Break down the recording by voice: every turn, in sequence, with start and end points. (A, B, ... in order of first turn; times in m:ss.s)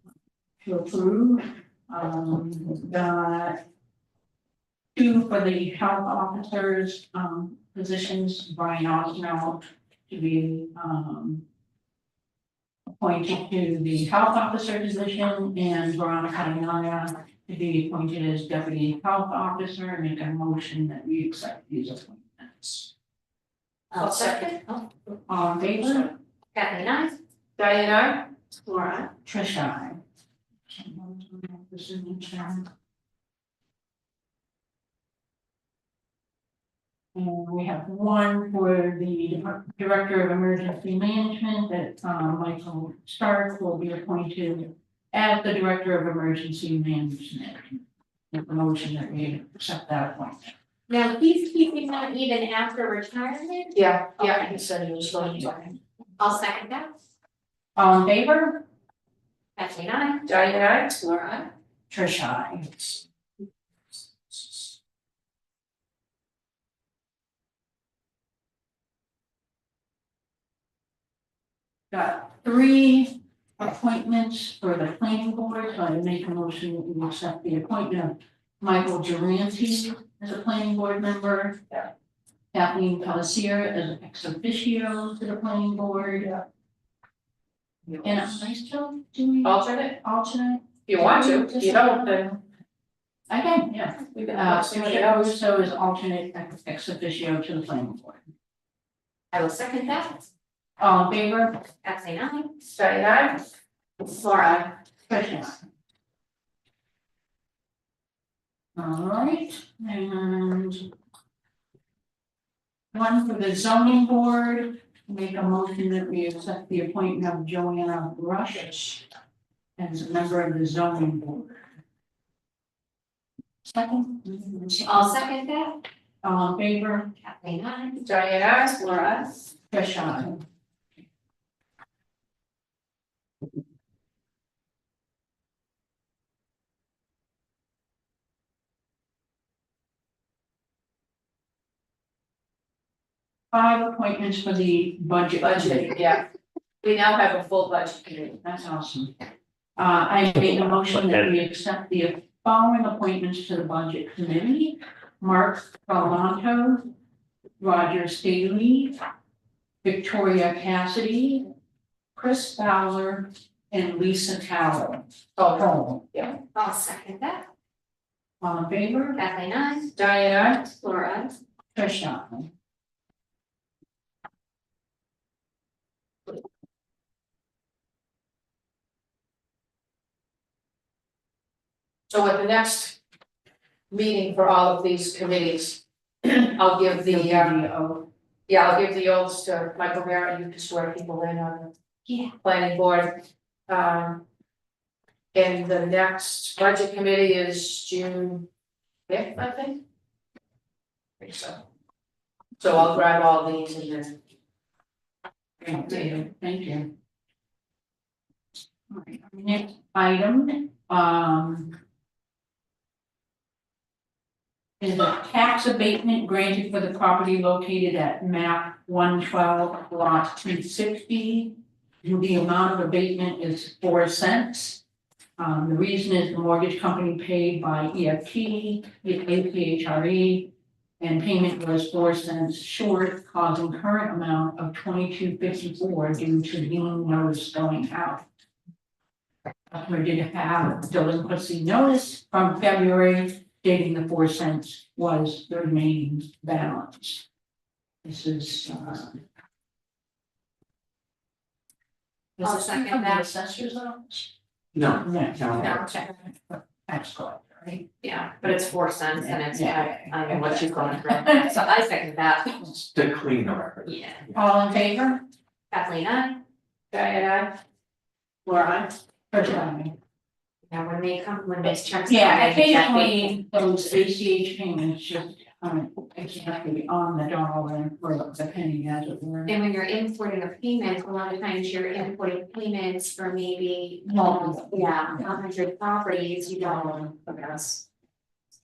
0:00.6-0:03.6 A
0:05.0-0:11.4 A
0:13.0-0:22.9 A
0:23.9-0:24.9 B
0:24.0-0:24.5 C
0:25.3-0:26.1 A
0:26.5-0:27.2 B
0:27.6-0:29.0 C
0:29.1-0:30.0 A
0:30.7-0:32.7 A
0:37.2-0:50.5 A
0:50.9-0:54.6 B
0:53.7-0:55.8 C
0:56.2-0:56.9 B
0:57.8-0:58.6 A
0:59.6-1:00.3 B
1:00.3-1:01.3 C
1:01.9-1:03.0 A
1:04.3-1:04.7 A
1:11.9-1:21.6 A
1:22.5-1:26.4 A
1:28.0-1:32.3 A
1:29.4-1:30.0 C
1:30.9-1:32.4 C
1:33.3-1:38.2 A
1:34.0-1:35.3 C
1:39.3-1:40.2 B
1:40.8-1:41.6 A
1:41.8-1:42.5 B
1:42.7-1:43.5 C
1:44.2-1:45.7 A
1:48.8-1:50.9 A
1:52.9-1:59.0 A
1:59.8-2:01.6 A
2:03.6-2:05.1 A
2:04.8-2:05.8 B
2:06.2-2:07.1 A
2:07.2-2:08.0 B
2:08.0-2:09.3 C
2:09.7-2:10.4 A
2:23.5-2:26.0 A
2:25.4-2:26.2 C
2:26.8-2:28.4 C
2:28.4-2:29.2 A
2:29.8-2:36.9 A
2:37.6-2:39.0 A
2:39.8-2:41.5 A
2:42.2-2:46.1 A
2:45.4-2:46.4 C
2:46.5-2:47.5 B
2:48.4-2:49.2 A
2:49.2-2:49.9 B
2:50.0-2:50.7 C
2:50.7-2:51.3 B
2:51.8-2:52.5 A
3:02.1-3:03.0 C
3:03.9-3:07.6 C
3:06.9-3:08.1 A
3:08.5-3:11.7 C
3:12.1-3:12.3 B
3:12.4-3:14.2 C
3:15.3-3:18.5 C
3:19.1-3:19.8 C
3:21.2-3:21.6 C
3:22.6-3:24.2 C
3:25.6-3:26.9 A
3:28.9-3:31.8 A
3:34.8-3:44.8 A
3:45.4-3:58.2 A
3:59.7-4:07.2 A
4:08.0-4:09.2 A
4:12.4-4:14.3 A
4:12.4-4:13.3 B
4:14.7-4:15.8 D
4:15.0-4:17.9 A
4:15.6-4:16.1 B
4:18.0-4:22.7 B
4:19.2-4:21.6 A
4:22.8-4:24.0 D
4:23.9-4:24.2 B
4:24.3-4:25.2 A
4:25.7-4:26.4 B
4:26.9-4:27.5 C
4:28.5-4:30.0 A
4:30.7-4:33.3 B
4:32.1-4:39.5 A
4:39.5-4:47.8 B
4:44.1-4:45.3 A